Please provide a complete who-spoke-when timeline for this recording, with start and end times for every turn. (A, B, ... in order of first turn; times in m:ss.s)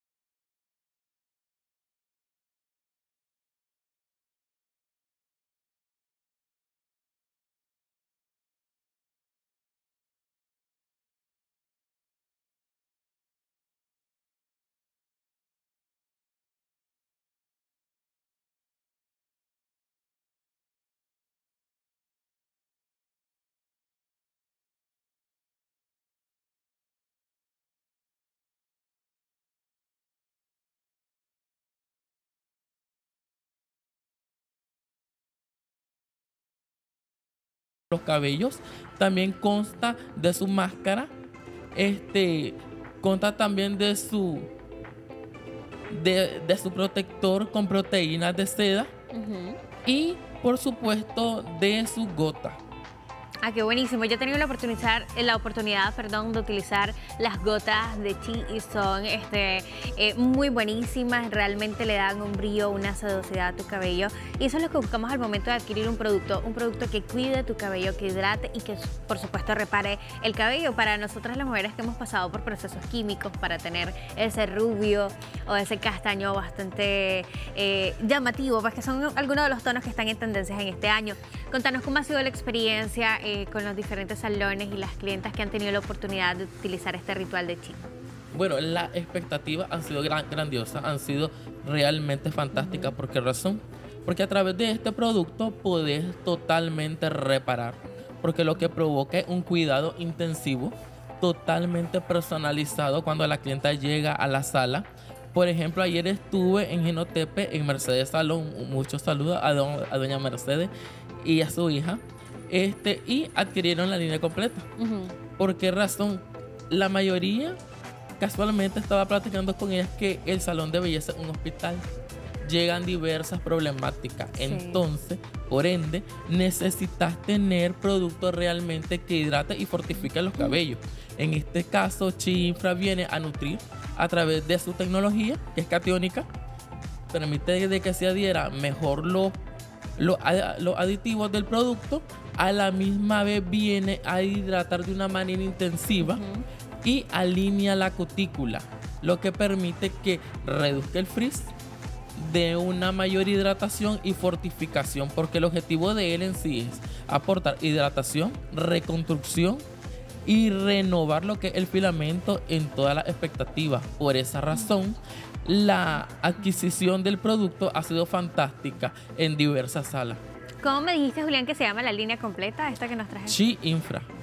0:37.9-0:41.1 A
0:41.8-0:44.5 A
0:45.9-0:48.9 A
0:49.1-0:49.6 B
0:49.8-0:52.6 A
0:53.4-1:27.8 B
1:28.3-1:50.7 A
1:32.5-1:33.0 B
1:51.2-1:54.7 A
1:54.8-1:55.2 B
1:55.4-1:57.6 A
1:58.2-2:01.8 A
2:02.4-2:16.3 A
2:04.4-2:04.8 B
2:17.1-2:19.4 A
2:20.0-2:26.2 A
2:26.0-2:26.4 B
2:26.8-2:31.5 A
2:32.2-2:39.6 A
2:40.3-2:50.2 A
2:50.6-2:53.4 B
2:53.3-2:54.1 A